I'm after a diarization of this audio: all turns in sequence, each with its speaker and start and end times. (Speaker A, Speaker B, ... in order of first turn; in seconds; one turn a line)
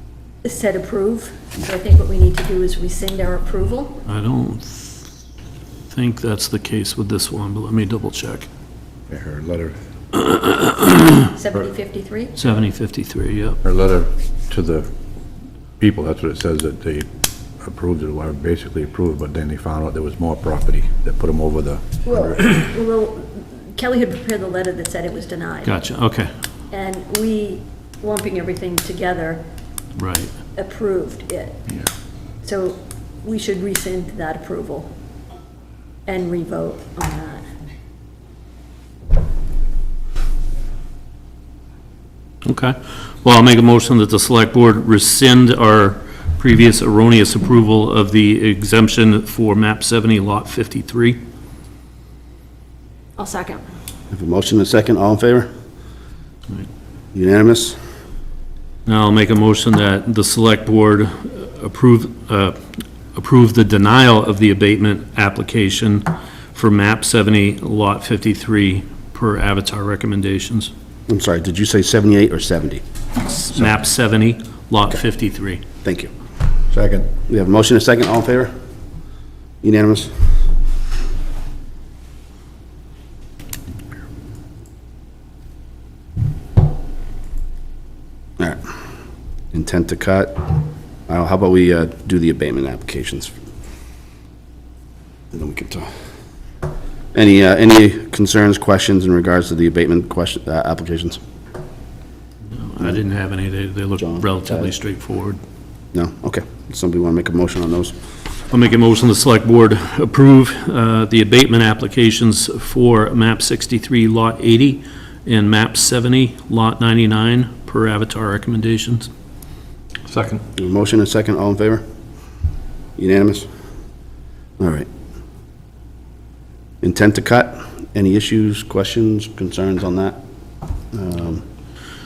Speaker A: 0.4-4.0
Speaker B: 4.0-5.1
Speaker B: 5.9-8.5
Speaker C: 9.1-9.7
Speaker B: 10.2-11.2
Speaker A: 11.3-12.3
Speaker B: 12.3-13.6
Speaker C: 13.6-14.9
Speaker C: 15.8-17.1
Speaker C: 17.6-22.5
Speaker A: 22.0-25.8
Speaker B: 25.6-26.3
Speaker A: 26.7-29.4
Speaker B: 29.9-30.3
Speaker A: 30.5-31.6
Speaker A: 32.4-34.9
Speaker A: 36.0-37.4
Speaker B: 42.5-51.2
Speaker A: 53.1-53.6
Speaker D: 54.1-55.5
Speaker D: 57.1-57.8
Speaker B: 58.9-62.6
Speaker B: 63.1-70.7
Speaker D: 71.1-72.8
Speaker B: 73.2-75.6
Speaker D: 75.8-76.1
Speaker C: 76.7-77.1
Speaker D: 77.3-78.5
Speaker D: 79.6-80.3
Speaker D: 89.5-90.5
Speaker D: 91.1-93.3
Speaker D: 95.3-95.9
Speaker D: 97.1-101.2
Speaker B: 102.5-105.4
Speaker D: 104.0-104.7
Speaker D: 105.9-107.9
Speaker B: 108.5-119.1
Speaker D: 120.5-121.8
Speaker D: 123.0-123.5
Speaker D: 124.6-124.9
Speaker D: 126.8-130.2
Speaker D: 130.9-131.4